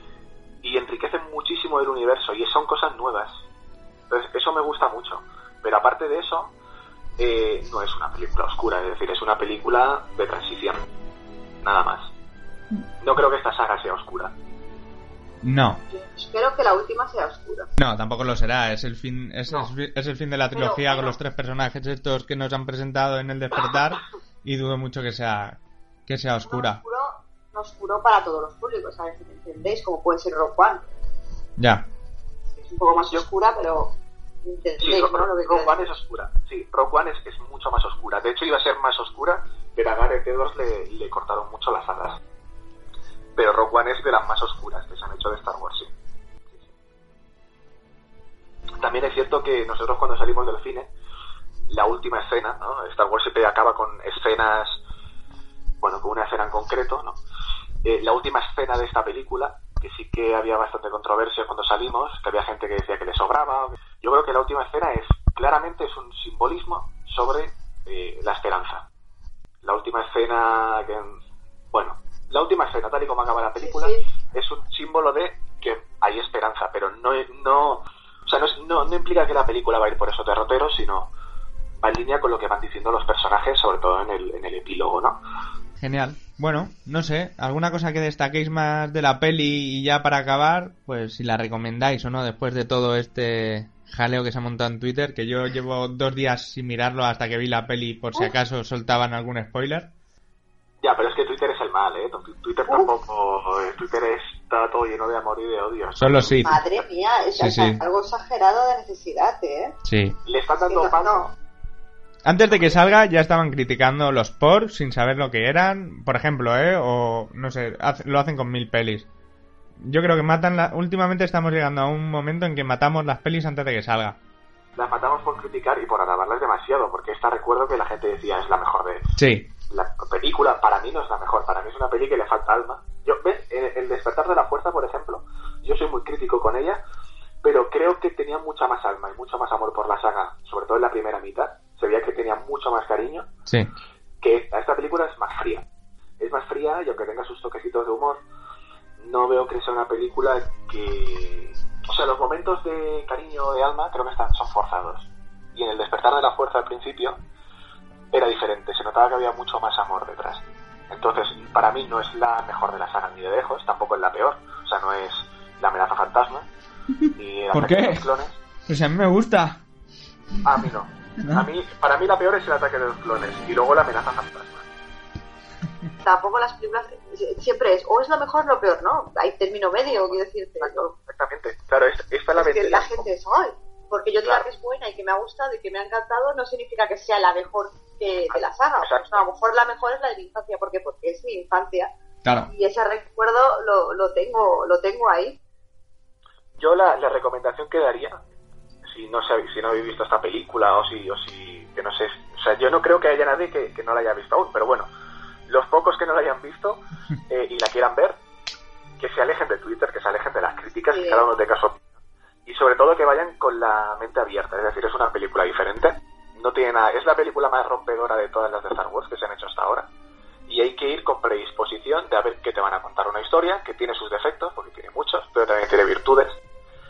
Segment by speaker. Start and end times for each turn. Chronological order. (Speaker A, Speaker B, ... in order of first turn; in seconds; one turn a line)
Speaker A: 0.6-3.4
Speaker A: 4.1-6.5
Speaker A: 7.2-10.9
Speaker A: 11.6-12.1
Speaker A: 13.0-14.3
Speaker B: 15.4-15.8
Speaker C: 15.9-17.7
Speaker B: 17.8-26.8
Speaker C: 20.5-21.2
Speaker C: 26.4-30.9
Speaker B: 31.6-31.9
Speaker C: 32.7-36.0
Speaker A: 34.8-42.2
Speaker A: 43.4-45.9
Speaker A: 48.8-50.9
Speaker A: 51.7-54.8
Speaker A: 55.8-57.2
Speaker A: 57.8-68.9
Speaker A: 69.6-71.2
Speaker A: 71.7-81.1
Speaker C: 73.6-74.0
Speaker A: 81.8-85.2
Speaker B: 85.8-99.9
Speaker A: 100.8-106.6
Speaker B: 106.0-106.6
Speaker C: 106.5-109.8
Speaker B: 107.4-107.8
Speaker B: 109.8-110.2
Speaker A: 110.2-111.3
Speaker C: 110.7-111.3
Speaker B: 112.2-119.1
Speaker A: 112.5-112.8
Speaker B: 119.8-124.2
Speaker A: 124.8-129.1
Speaker B: 129.2-129.5
Speaker A: 129.7-136.8
Speaker A: 137.4-143.3
Speaker A: 144.2-145.7
Speaker A: 146.2-148.2
Speaker A: 149.0-157.2
Speaker A: 158.1-166.5
Speaker A: 167.1-168.4
Speaker B: 167.5-168.1
Speaker B: 168.7-169.6
Speaker A: 170.4-174.7
Speaker C: 176.0-180.9
Speaker A: 179.8-182.9
Speaker C: 182.3-191.9
Speaker A: 188.3-189.2
Speaker B: 192.2-192.5
Speaker C: 192.5-195.4
Speaker A: 196.6-198.2
Speaker A: 198.8-204.9
Speaker A: 205.5-208.2
Speaker A: 209.0-211.9
Speaker C: 210.9-211.2
Speaker A: 212.5-219.9
Speaker A: 220.5-226.4